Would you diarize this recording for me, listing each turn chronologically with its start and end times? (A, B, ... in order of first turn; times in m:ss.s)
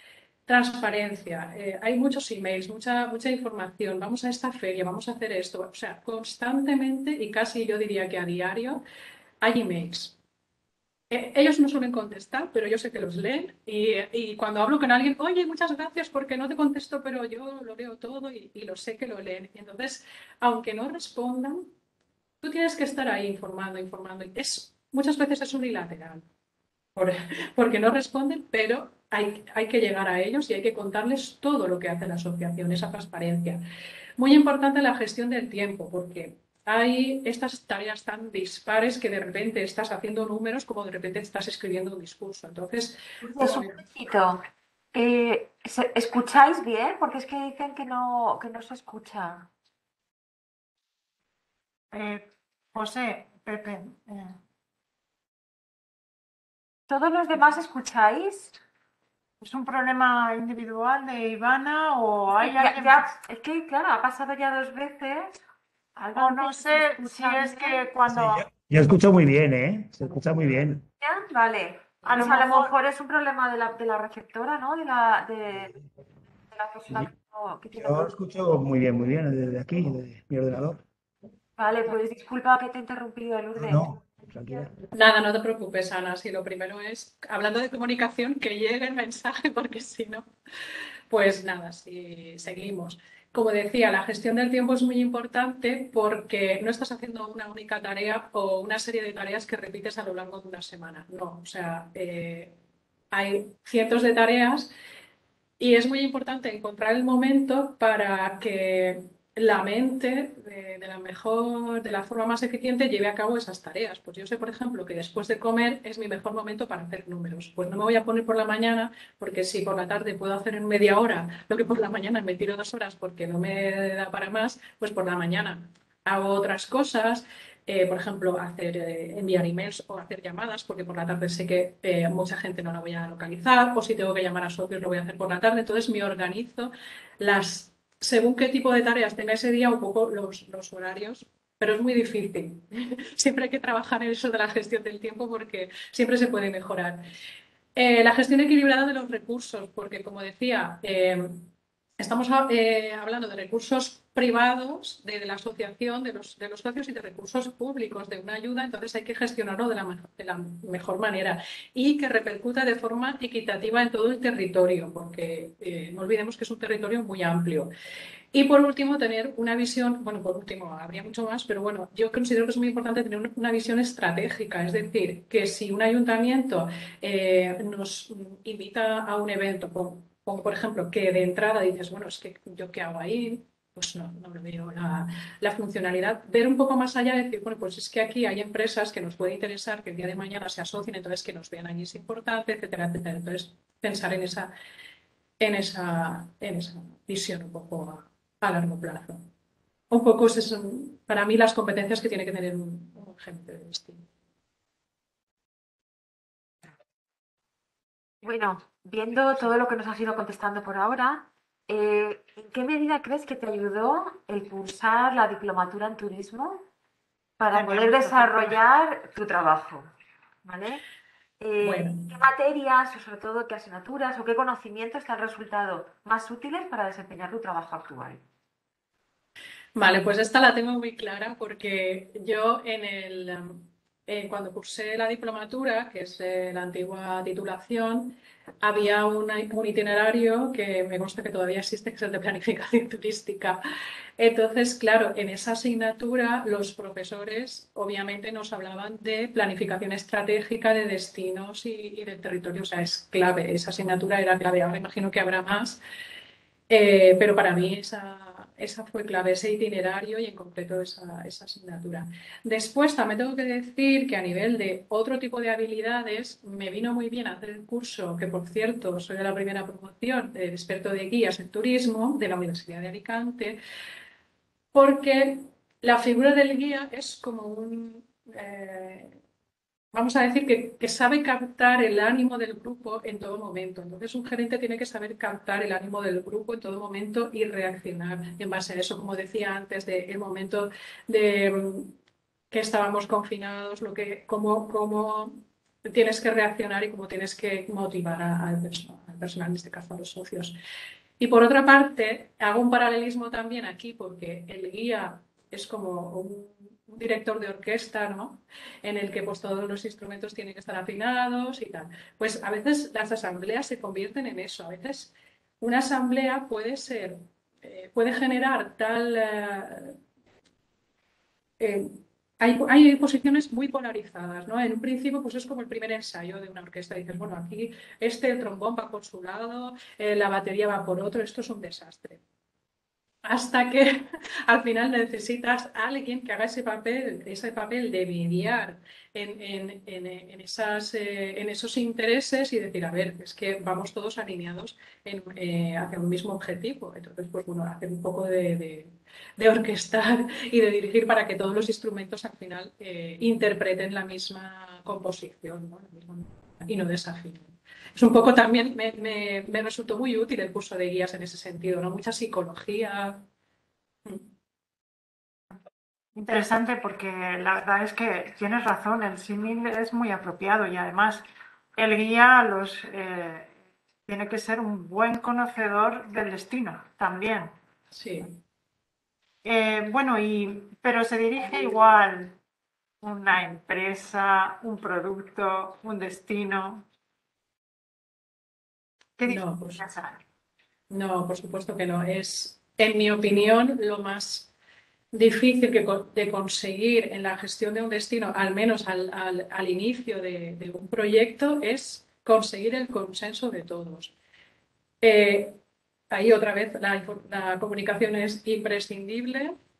0:00.5-0:08.8 A
0:09.4-0:10.2 A
0:11.1-0:21.7 A
0:22.4-0:26.2 A
0:26.9-0:33.6 A
0:34.2-0:43.8 A
0:43.2-0:44.4 B
0:44.9-0:49.5 B
0:51.9-0:54.4 C
0:56.9-0:58.6 B
0:59.4-1:03.1 C
1:02.5-1:05.4 B
1:06.0-1:07.8 B
1:06.0-1:08.5 C
1:08.1-1:10.8 D
1:11.0-1:15.7 B
1:12.0-1:12.7 C
1:16.5-1:18.2 B
1:17.7-1:20.8 D
1:21.6-1:24.0 B
1:23.6-1:24.7 D
1:24.9-1:30.2 A
1:31.1-1:42.6 A
1:43.1-1:44.7 A
1:45.6-2:27.0 A
2:27.8-2:47.7 A
2:48.3-3:14.5 A
3:15.4-3:19.2 A
3:19.9-3:24.0 A
3:28.2-3:36.6 B
3:37.4-3:39.9 B
3:37.5-3:38.6 C
3:40.4-3:40.8 B
3:41.4-3:48.2 B
3:41.6-3:42.1 A
3:49.8-4:03.6 A
4:04.2-4:15.8 A
4:16.7-4:33.6 A
4:34.7-4:39.2 A
4:39.9-4:52.0 A
4:52.5-5:00.6 A
5:01.2-5:20.0 A
5:21.6-5:32.2 A
5:33.2-6:03.2 A
6:06.1-6:11.2 C
6:11.8-6:13.5 C
6:14.1-6:17.5 C
6:17.9-6:18.4 A
6:19.4-6:22.4 C
6:23.0-6:26.8 C
6:29.2-6:30.2 C
6:29.2-6:29.8 A
6:30.9-6:34.5 A
6:35.1-6:44.1 A
6:45.0-6:45.6 A
6:46.1-6:49.5 A